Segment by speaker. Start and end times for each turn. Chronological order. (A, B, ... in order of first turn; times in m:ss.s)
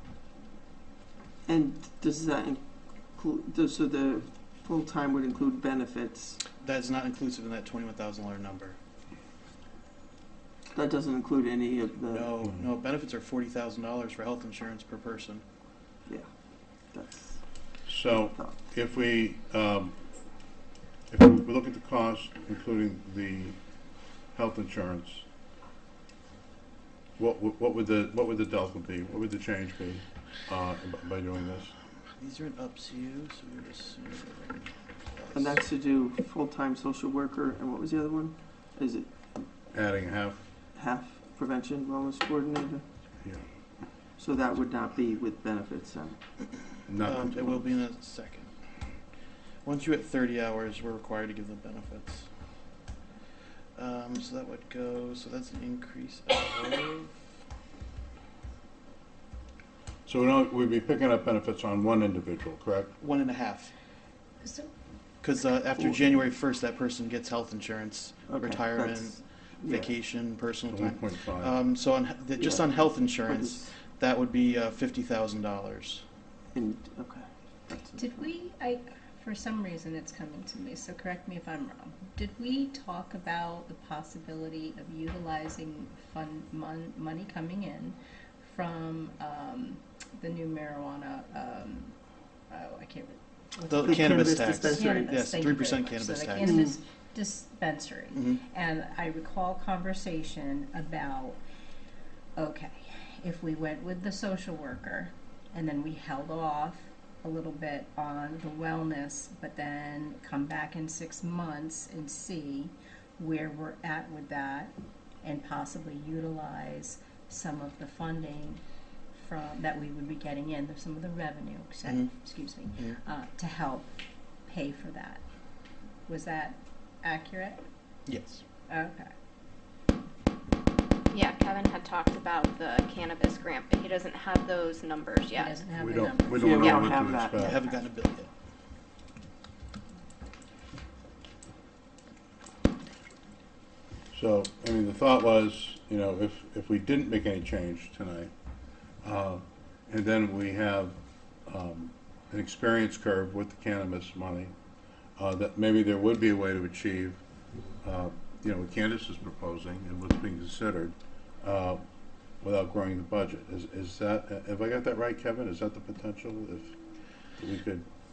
0:01.4-0:06.4 A
0:06.6-0:08.8 B
0:10.7-0:12.3 A
0:12.1-0:15.4 B
0:16.9-0:17.4 A
0:17.8-0:20.0 C
0:18.1-0:18.5 A
0:21.1-0:23.6 C
0:24.3-0:25.2 C
0:27.2-0:31.7 C
0:32.2-0:35.6 B
0:35.3-0:39.1 A
0:39.7-0:40.5 C
0:40.7-0:42.8 A
0:44.2-0:46.2 A
0:46.9-0:47.7 C
0:47.0-0:48.5 B
0:49.6-0:52.3 B
0:53.8-0:57.2 B
1:00.0-1:02.9 C
1:03.0-1:03.7 B
1:04.4-1:04.7 D
1:05.2-1:16.0 B
1:08.3-1:09.9 A
1:10.7-1:11.6 C
1:12.4-1:13.7 A
1:16.5-1:18.2 A
1:18.0-1:31.9 D
1:32.5-1:41.4 D
1:33.7-1:36.6 B
1:33.8-1:35.2 A
1:36.4-1:36.8 A
1:38.1-1:38.4 B
1:42.4-1:58.6 D
1:59.1-2:03.9 D
2:01.8-2:02.1 B
2:04.5-2:05.2 D
2:06.1-2:07.6 D
2:08.1-2:08.4 B
2:08.7-2:09.1 D
2:11.1-2:15.6 E
2:15.3-2:17.4 D
2:15.8-2:17.6 C
2:16.4-2:17.4 A
2:17.4-2:18.3 B
2:24.1-2:28.3 C
2:29.0-2:34.5 C
2:35.2-2:37.2 C
2:37.8-2:41.8 C
2:42.4-2:46.7 C
2:47.4-2:47.8 C